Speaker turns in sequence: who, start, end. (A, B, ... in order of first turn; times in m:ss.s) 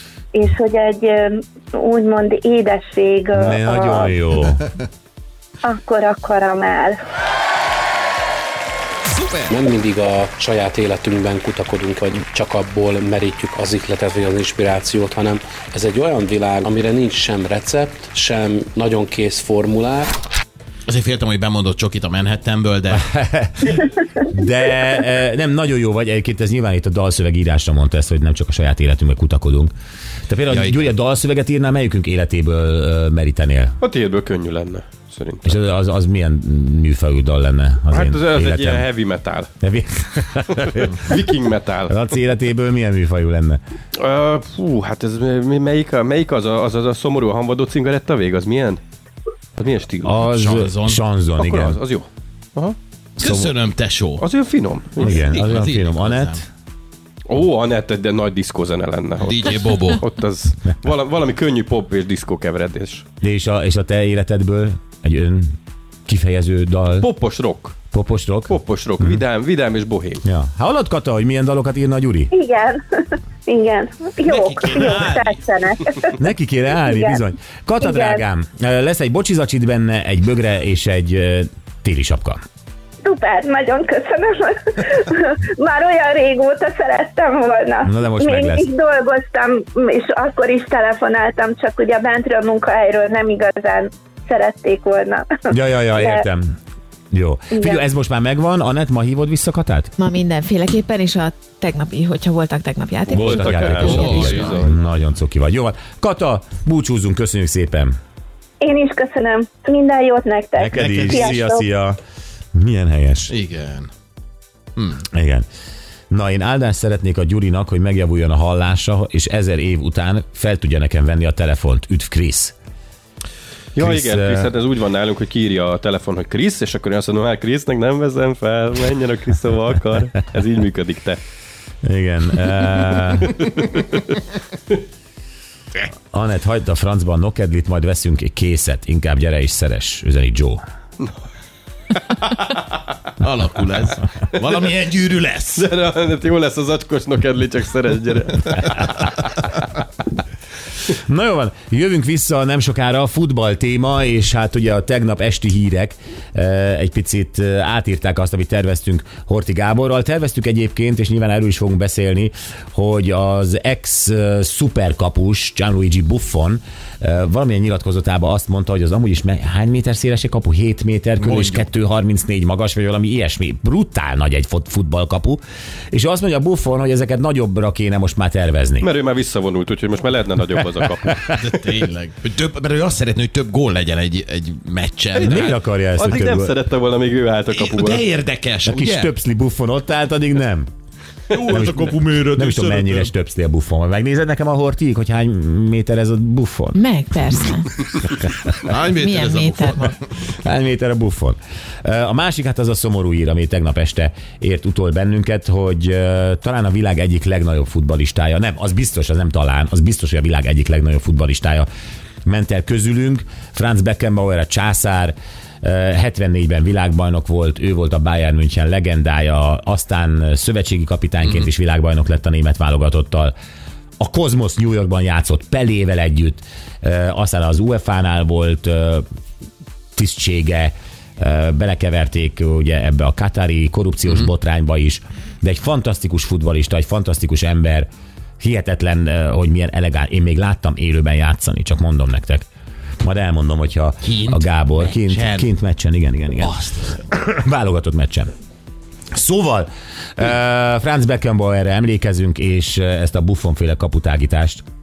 0:00.3-0:04.1 A
0:03.4-0:04.6 B
0:05.6-0:07.0 A
0:09.1-0:09.5 C
0:09.5-0:20.2 D
0:20.9-0:23.0 C
0:22.9-0:29.7 B
0:30.3-0:33.8 B
0:30.5-0:30.9 C
0:33.8-0:35.6 E
0:35.4-0:38.9 B
0:37.9-0:39.5 E
0:39.6-0:41.1 B
0:40.5-0:41.9 E
0:41.9-0:43.6 B
0:44.0-0:48.8 E
0:49.6-0:50.2 E
0:50.0-0:51.8 B
0:50.3-0:51.0 C
0:51.4-0:52.8 E
0:53.2-0:53.5 B
0:53.2-0:54.3 C
0:54.2-0:55.1 E
0:55.0-0:56.5 B
0:55.0-0:56.4 C
0:57.3-0:59.4 E
0:59.2-1:00.0 C
1:00.0-1:03.1 E
1:03.2-1:05.6 B
1:06.1-1:07.1 B
1:07.0-1:07.8 E
1:07.9-1:09.2 B
1:08.5-1:10.2 E
1:10.2-1:12.3 B
1:12.3-1:16.2 A
1:14.3-1:15.4 C
1:16.2-1:22.4 B
1:16.8-1:17.2 A
1:17.8-1:18.2 A
1:23.0-1:35.4 A
1:27.8-1:28.7 B
1:35.5-1:36.6 B
1:36.0-1:36.3 A
1:37.1-1:39.9 B
1:37.5-1:37.8 A
1:40.0-1:44.3 F
1:43.1-1:47.9 B
1:43.3-1:44.7 E
1:43.4-1:44.6 C
1:48.6-1:51.7 A
1:50.6-1:52.0 B
1:50.8-1:51.4 C
1:52.6-1:53.3 B
1:53.3-1:53.9 C
1:54.8-1:55.0 C
1:55.1-1:55.5 B
1:56.1-2:02.6 B
2:03.7-2:11.2 E
2:03.8-2:04.5 B
2:11.8-2:13.4 B
2:13.4-2:14.2 E
2:16.1-2:20.6 B
2:23.2-2:25.6 C
2:25.5-2:29.2 E
2:30.9-2:55.4 B
2:51.2-2:51.7 C
2:55.9-2:58.9 B
2:58.8-3:01.2 E
3:01.0-3:01.4 B
3:01.3-3:05.5 C
3:05.2-3:06.6 B
3:06.0-3:08.0 E
3:07.5-3:09.1 C
3:08.6-3:10.7 B
3:11.3-3:13.0 C
3:11.4-3:16.8 B
3:16.7-3:17.7 F
3:18.6-3:20.0 C
3:18.9-3:19.9 F
3:20.4-3:31.7 B
3:32.3-3:43.3 B
3:44.0-3:49.0 B
3:50.0-3:57.9 B
3:58.4-4:02.5 B
4:03.0-4:08.3 B
4:04.0-4:05.5 C
4:06.4-4:07.0 C
4:09.1-4:14.6 B